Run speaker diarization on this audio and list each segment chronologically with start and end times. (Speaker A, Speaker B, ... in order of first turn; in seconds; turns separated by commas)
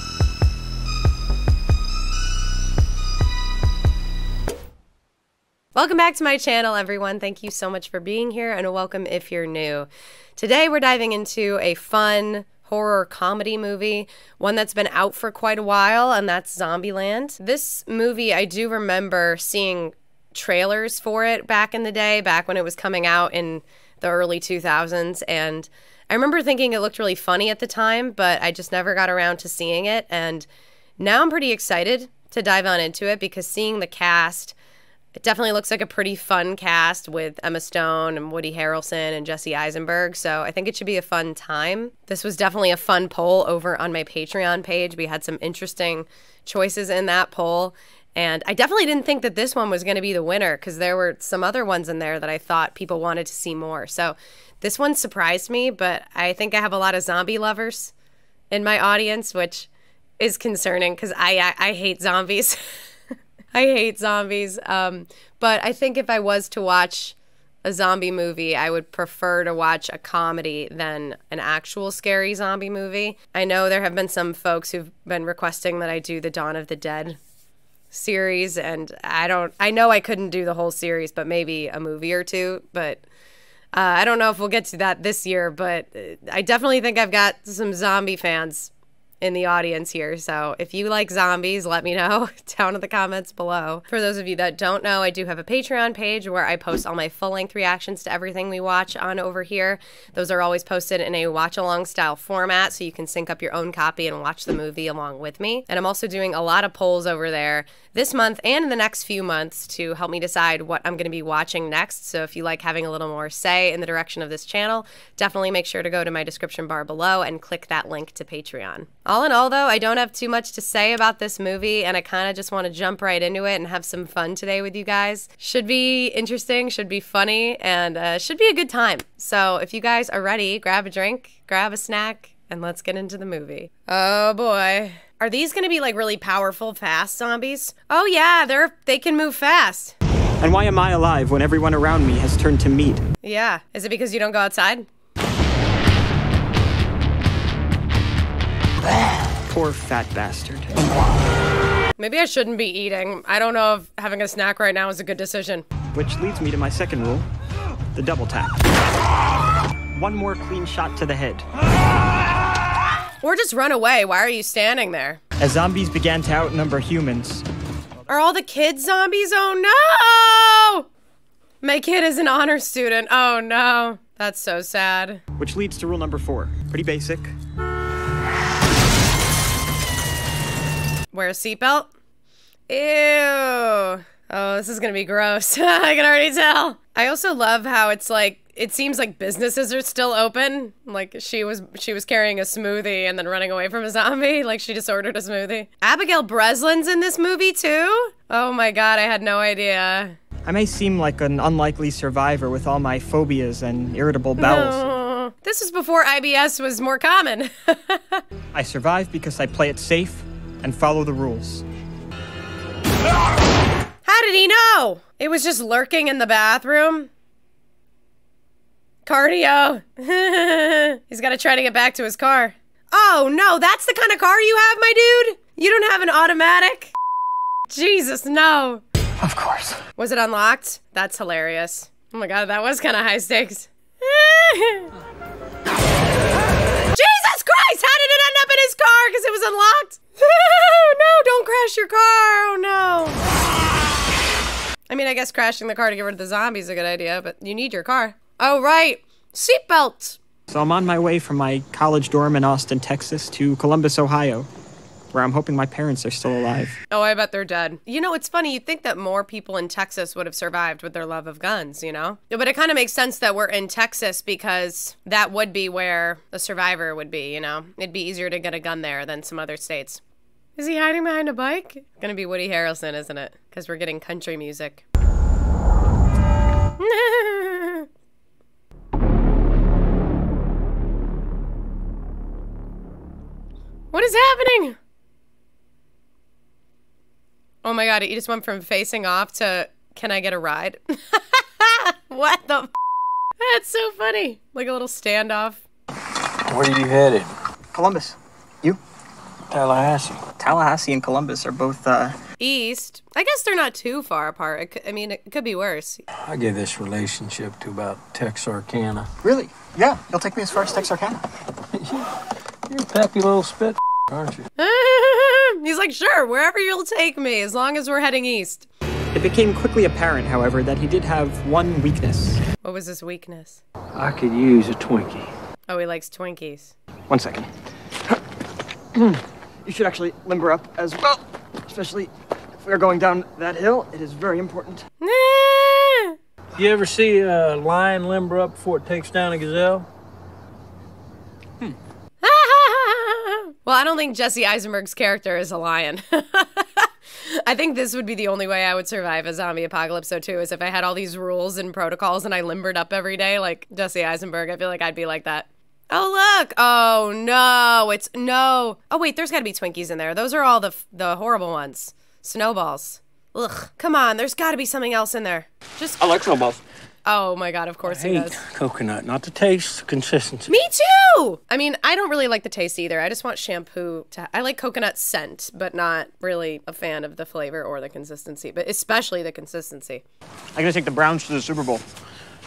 Speaker A: 5.7-30.5, Speaker A: 31.0-34.5, Speaker A: 35.1-57.9, Speaker A: 58.5-59.7, Speaker A: 60.2-62.8, Speaker A: 63.5-77.2, Speaker A: 77.9-83.0, Speaker A: 83.7-139.9, Speaker B: 140.4-143.0, Speaker A: 143.2-144.9, Speaker B: 149.5-150.7, Speaker A: 152.0-155.7, Speaker B: 155.9-157.3, Speaker B: 157.9-158.6, Speaker B: 159.9-161.4, Speaker A: 163.2-165.2, Speaker B: 165.4-167.4, Speaker A: 168.1-170.9, Speaker A: 171.6-175.2, Speaker B: 175.4-177.3, Speaker A: 181.1-181.9, Speaker A: 182.7-200.2, Speaker B: 200.4-204.9, Speaker A: 204.4-208.2, Speaker B: 208.5-211.6, Speaker A: 214.1-217.1, Speaker A: 219.0-226.9, Speaker A: 227.7-228.8, Speaker B: 229.2-229.8, Speaker A: 230.0-234.9, Speaker A: 236.9-243.2, Speaker A: 244.9-250.2, Speaker B: 250.5-254.5, Speaker B: 255.1-256.8, Speaker A: 256.9-270.0, Speaker A: 270.6-274.8, Speaker A: 276.8-277.9, Speaker A: 283.9-284.8, Speaker A: 287.6-292.7, Speaker A: 293.4-295.6, Speaker C: 296.5-297.3, Speaker B: 297.7-298.8, Speaker C: 299.5-300.2, Speaker B: 300.4-302.2, Speaker A: 302.4-306.0, Speaker C: 306.2-309.1, Speaker B: 309.2-311.2, Speaker C: 311.8-312.1, Speaker C: 312.7-314.4, Speaker A: 314.6-318.7, Speaker B: 319.1-322.4, Speaker A: 322.6-323.6, Speaker C: 323.9-325.3, Speaker A: 325.7-326.7, Speaker B: 327.1-327.5, Speaker B: 328.9-334.8, Speaker A: 335.0-336.1, Speaker C: 336.6-339.9, Speaker A: 342.2-366.0, Speaker B: 366.0-366.6, Speaker A: 367.1-368.4, Speaker C: 367.9-370.5, Speaker A: 370.5-380.0, Speaker B: 380.5-381.8